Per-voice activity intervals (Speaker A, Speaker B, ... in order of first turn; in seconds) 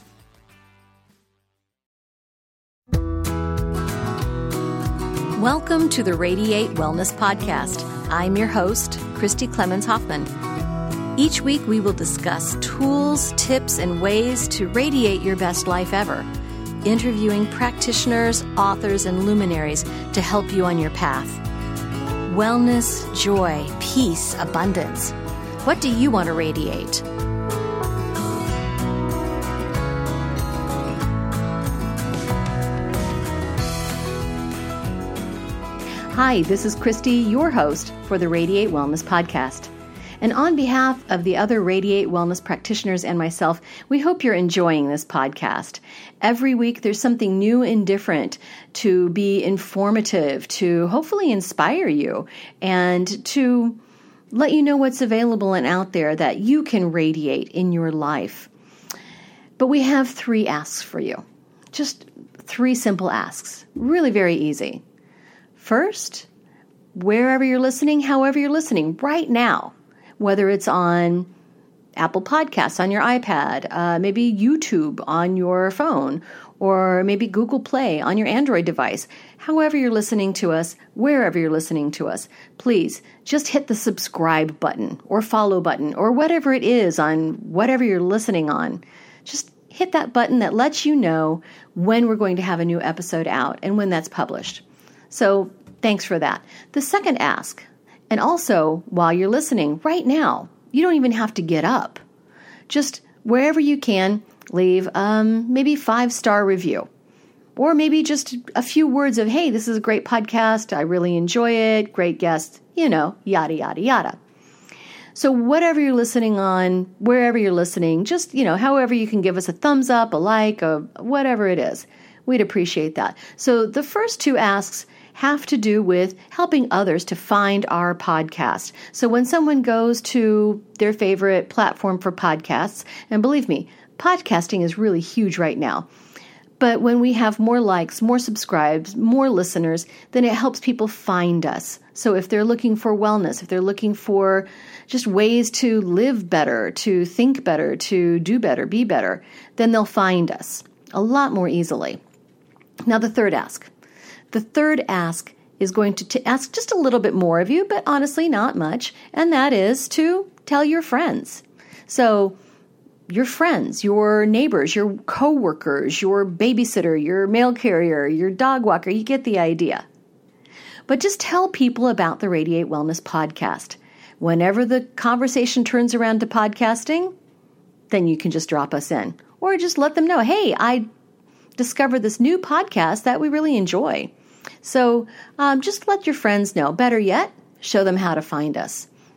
Speaker A: 5.3-10.3, 11.2-16.3, 16.8-21.4, 22.2-27.0, 36.1-53.8, 54.3-58.5, 59.6-64.8, 65.6-66.3, 66.9-71.3, 72.0-102.0, 102.7-106.9, 107.5-114.2, 115.1-135.8, 136.6-152.0, 152.8-153.7, 154.3-162.3, 163.1-169.8, 170.9-177.1, 177.9-180.9, 181.6-184.1, 184.6-188.9